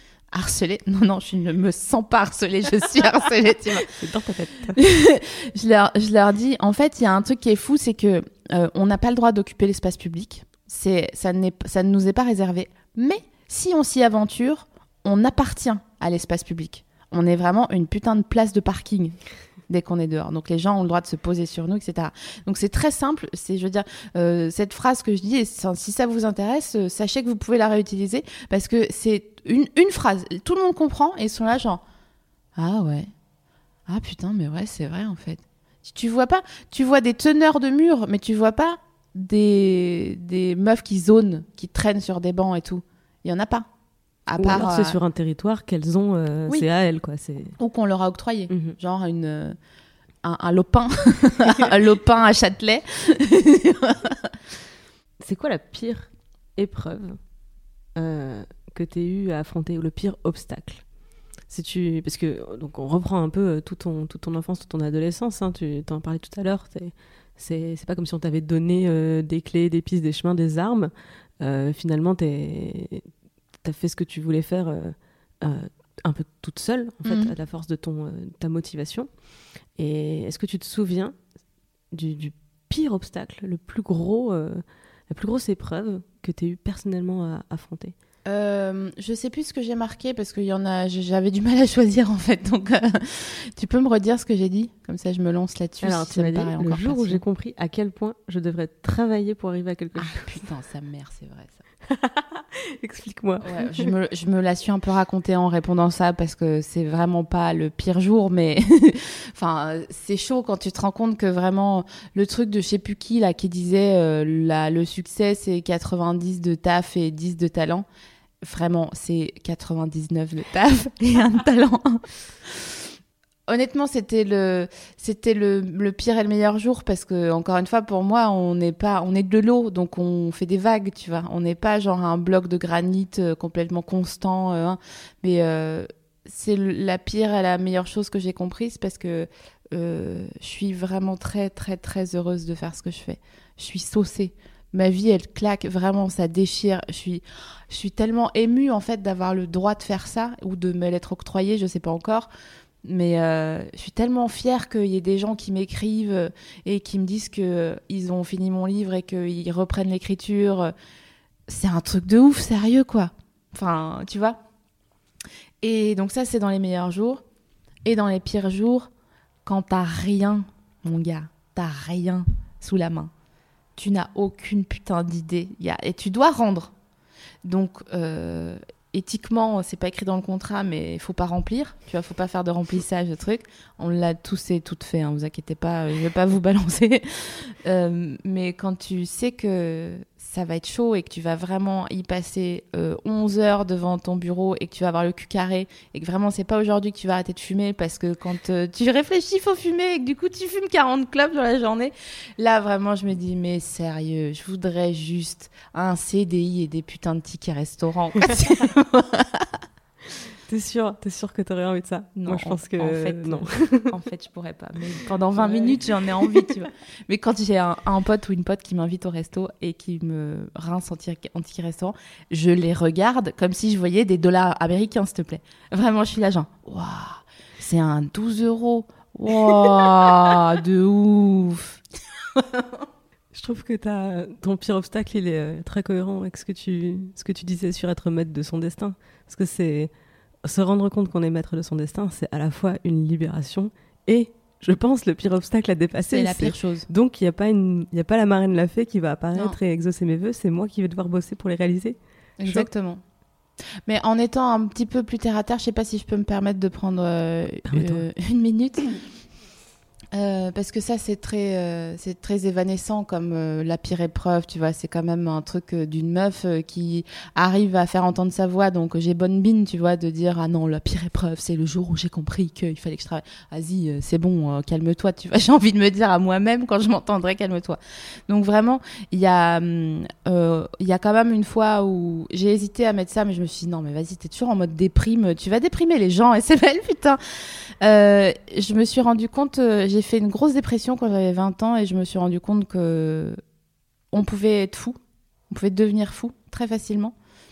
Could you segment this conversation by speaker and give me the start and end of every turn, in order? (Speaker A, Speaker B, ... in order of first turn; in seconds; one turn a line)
Speaker A: 0.3-3.9
Speaker B: 3.8-4.8
Speaker A: 4.8-19.2
Speaker A: 19.7-31.8
Speaker A: 32.5-33.1
Speaker A: 33.9-43.7
Speaker A: 44.3-45.0
Speaker B: 44.4-47.6
Speaker A: 47.6-49.6
Speaker B: 48.5-48.8
Speaker A: 50.2-54.3
Speaker B: 55.2-57.2
Speaker B: 58.0-60.8
Speaker B: 61.5-73.1
Speaker B: 73.6-79.1
Speaker A: 77.0-77.3
Speaker B: 79.8-81.2
Speaker B: 81.9-87.9
Speaker A: 88.2-97.2
Speaker B: 95.8-100.4
Speaker A: 100.0-101.6
Speaker B: 101.9-103.9
Speaker A: 103.4-117.8
Speaker A: 118.4-122.8
Speaker A: 123.5-152.3
Speaker A: 152.8-160.7
Speaker A: 161.5-164.4
Speaker A: 165.6-167.2
Speaker A: 167.8-168.9
Speaker A: 169.4-173.1
Speaker A: 173.8-176.7
Speaker A: 177.4-209.5
Speaker B: 210.5-213.9
Speaker A: 212.2-231.8
Speaker B: 215.4-216.4
Speaker A: 232.3-232.6
Speaker B: 233.3-239.9
Speaker B: 240.4-252.7
Speaker A: 246.1-246.9
Speaker A: 252.4-253.0
Speaker A: 253.9-258.9
Speaker B: 257.6-258.0
Speaker A: 260.1-287.2
Speaker A: 287.8-293.4
Speaker A: 294.1-295.0
Speaker A: 295.5-297.1